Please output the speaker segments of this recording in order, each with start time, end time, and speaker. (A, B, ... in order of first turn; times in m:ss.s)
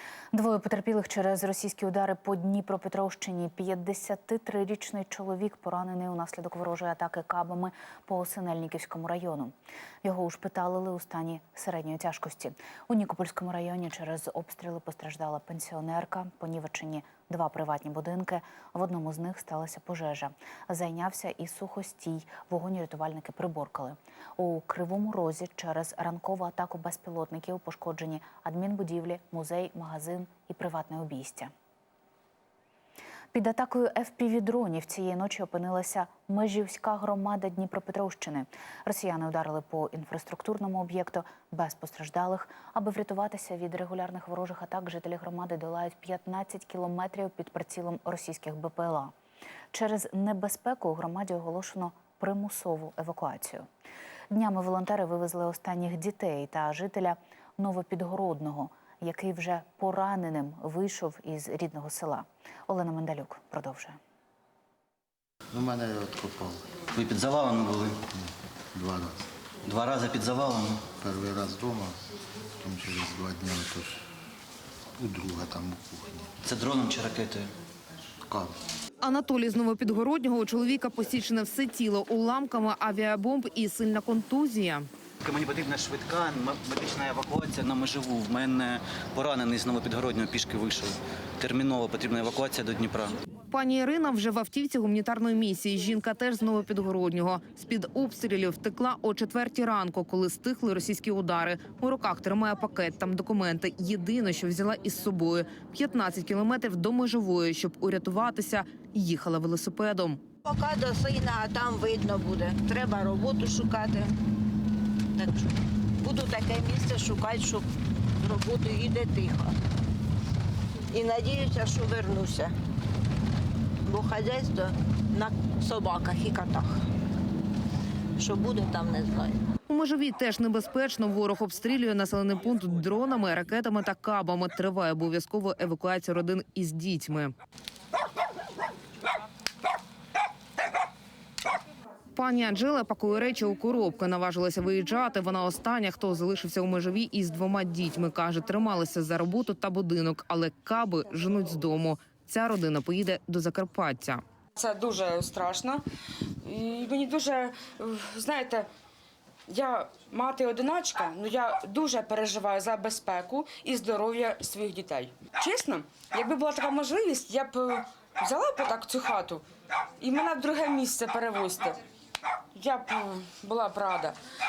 0:00.3-0:09.5 A
0:10.0-0:31.5 A
0:33.3-0:49.1 A
0:49.7-0:53.7 A
0:54.3-1:04.0 A
1:05.5-1:06.6 B
1:06.9-1:08.1 C
1:08.8-1:09.2 B
1:09.6-1:11.0 C
1:11.0-1:11.9 B
1:12.6-1:13.9 B
1:15.0-1:16.3 B
1:16.4-1:17.5 C
1:19.0-1:24.9 D
1:25.2-1:33.2 C
1:33.5-1:50.2 D
1:50.5-1:54.1 E
1:56.0-1:57.6 E
1:58.2-1:59.5 E
2:00.9-2:02.5 E
2:03.9-2:06.8 E
2:08.2-2:09.3 E
2:09.7-2:17.3 D
2:22.2-2:34.2 D
2:34.6-2:35.8 F
2:36.4-2:38.7 F
2:39.5-2:49.4 F
2:50.0-2:51.8 F
2:52.6-2:54.2 F